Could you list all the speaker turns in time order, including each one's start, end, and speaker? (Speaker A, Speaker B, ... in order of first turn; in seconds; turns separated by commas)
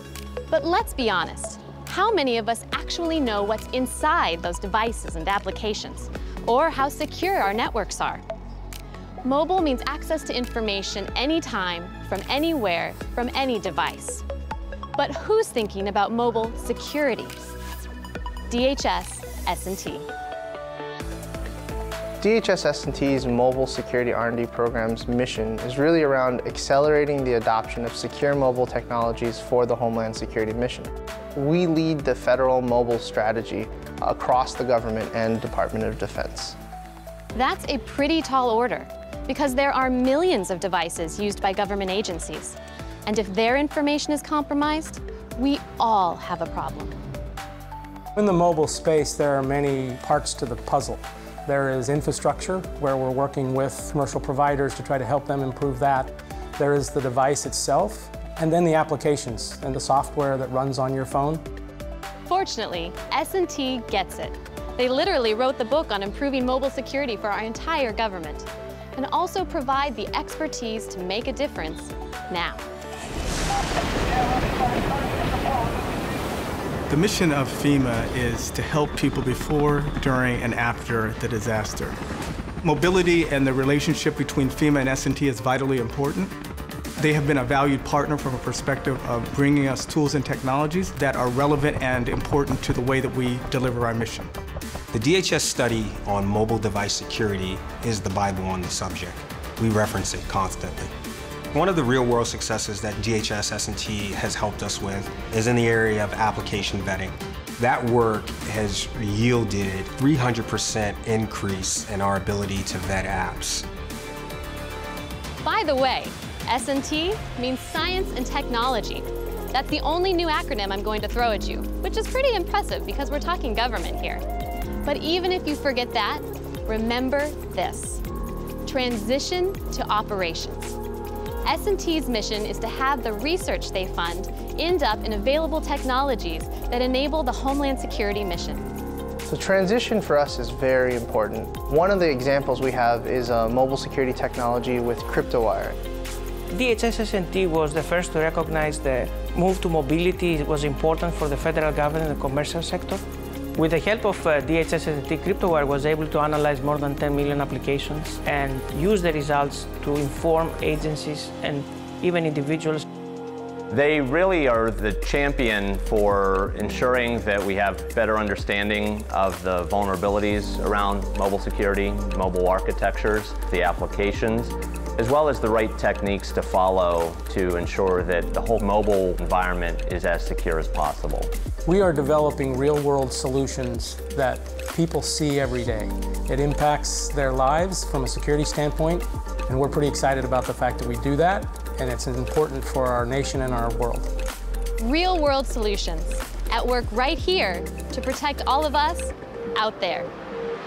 Speaker A: 0.5-8.2, Speaker A: 9.2-14.2, Speaker A: 15.0-17.4, Speaker A: 18.5-20.1, Speaker B: 22.2-36.6, Speaker A: 37.4-47.0, Speaker C: 48.2-61.4, Speaker A: 62.3-72.6, Speaker D: 76.9-82.0, Speaker D: 82.6-86.3, Speaker D: 87.0-94.3, Speaker E: 94.9-100.9, Speaker E: 101.5-113.7, Speaker A: 115.4-124.2, Speaker A: 124.8-128.0, Speaker A: 128.7-130.8, Speaker A: 131.4-138.7, Speaker B: 139.3-145.8, Speaker F: 146.5-153.0, Speaker F: 153.6-162.8, Speaker G: 163.7-181.3, Speaker C: 181.7-194.1, Speaker A: 194.8-200.1